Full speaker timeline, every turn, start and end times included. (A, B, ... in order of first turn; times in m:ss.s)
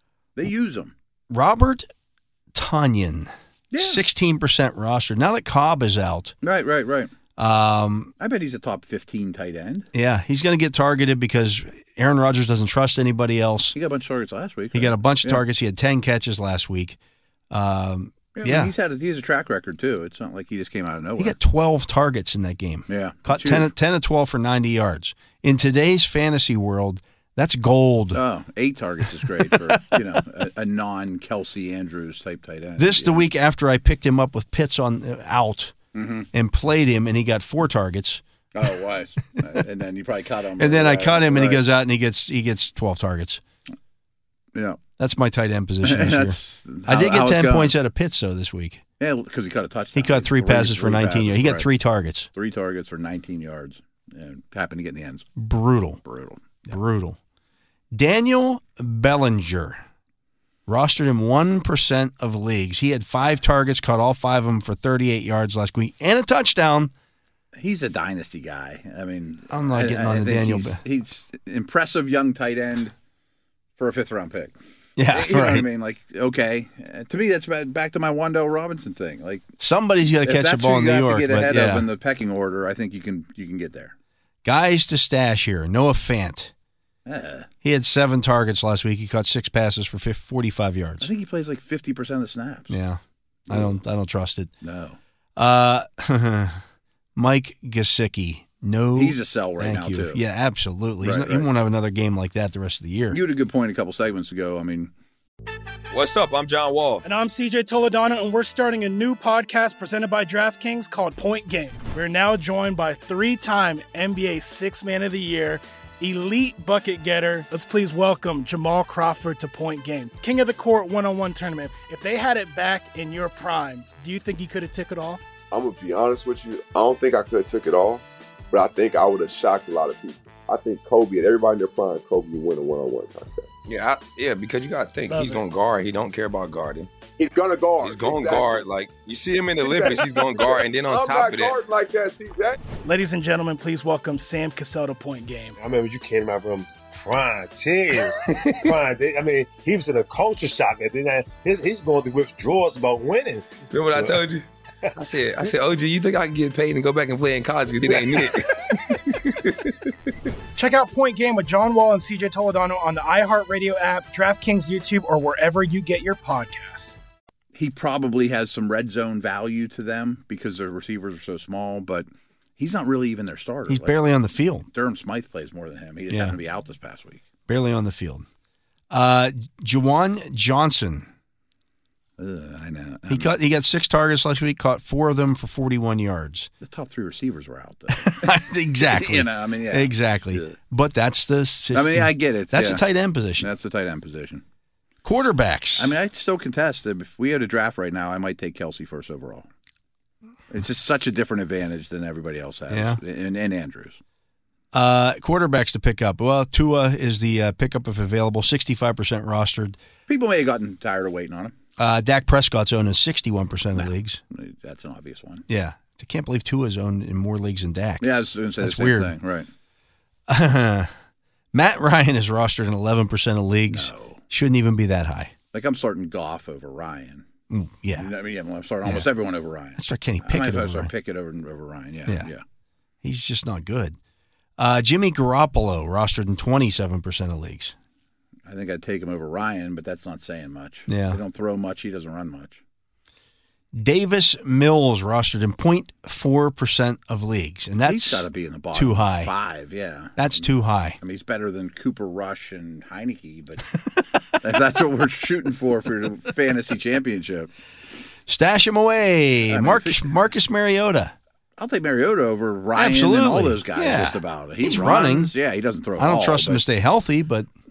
0:00.4-0:00.9 A
0:01.3-0:01.9 B
0:02.5-0:06.4 B
0:03.7-0:04.0 A
0:06.4-0:07.1 A
0:07.4-0:08.1 B
0:08.2-0:09.9 A
0:09.9-0:13.8 B
0:13.8-0:15.4 A
0:14.7-0:17.0 B
0:17.5-0:18.7 B
0:18.4-0:21.4 A
0:21.2-0:28.2 B
0:22.9-0:23.7 A
0:28.1-0:33.3 A
0:29.2-0:29.8 B
0:32.8-0:35.8 B
0:35.9-0:36.3 A
0:36.3-0:38.2 B
0:38.6-0:41.6 A
0:40.6-0:43.4 B
0:44.5-0:44.8 A
0:45.0-0:48.8 B
0:45.8-0:47.8 A
0:49.0-0:51.7 A
0:50.0-0:52.3 B
0:52.3-0:55.3 A
0:55.4-0:56.0 B
0:56.0-0:56.7 A
0:56.7-0:57.2 B
0:57.9-0:59.8 B
1:00.7-1:06.9 B
1:07.6-1:12.9 A
1:09.5-1:10.8 B
1:13.8-1:14.5 A
1:15.0-1:15.7 B
1:15.1-1:19.5 A
1:19.6-1:21.9 B
1:20.2-1:24.0 A
1:24.4-1:26.5 B
1:27.1-1:27.5 A
1:27.6-1:31.1 B
1:31.0-1:32.8 A
1:32.7-1:34.5 B
1:33.5-1:33.8 A
1:34.6-1:35.0 A
1:35.4-1:36.6 B
1:37.2-1:43.2 B
1:38.9-1:40.2 A
1:41.0-1:41.5 A
1:43.1-1:44.9 A
1:45.9-1:47.0 C
1:47.0-2:05.2 D
2:05.5-2:13.5 E
2:13.7-2:16.9 C
2:15.1-2:15.4 D
2:17.2-2:18.6 E
2:17.8-2:21.6 C
2:19.6-2:22.6 E
2:22.8-2:25.6 D
2:25.6-2:34.2 F
2:33.7-2:34.5 C
2:35.0-2:39.5 C
2:40.6-2:47.0 D
2:47.6-2:52.1 A
2:52.6-2:54.0 A
2:53.7-2:54.7 B
2:54.7-2:57.2 A
2:56.1-2:56.4 B
2:57.5-2:58.3 B
2:58.9-3:01.1 B
3:02.2-3:03.3 A
3:03.1-3:06.5 B
3:06.6-3:10.6 A
3:07.9-3:13.5 B
3:11.7-3:12.9 A
3:13.4-3:14.4 A
3:15.0-3:15.9 B
3:15.8-3:19.5 A
3:20.5-3:24.0 A
3:22.7-3:23.0 B
3:24.7-3:29.8 B
3:30.1-3:31.5 A
3:31.8-3:34.2 B
3:33.7-3:35.4 A
3:35.5-3:39.2 B
3:38.0-3:39.5 A
3:40.3-3:40.9 B
3:41.5-3:45.3 B
3:43.7-3:44.2 A
3:45.5-3:47.3 A
3:47.5-3:48.1 B
3:48.0-3:52.4 A
3:49.8-3:50.9 B
3:53.0-3:54.0 B
3:54.6-3:57.8 B
3:58.5-4:02.6 A
4:00.9-4:01.2 B
4:03.7-4:09.3 B
4:07.8-4:10.5 A
4:10.2-4:11.0 B
4:11.0-4:13.7 A
4:14.4-4:17.5 A
4:18.3-4:21.2 B
4:19.5-4:20.1 A
4:21.6-4:26.6 A
4:22.8-4:25.3 B
4:26.0-4:27.5 B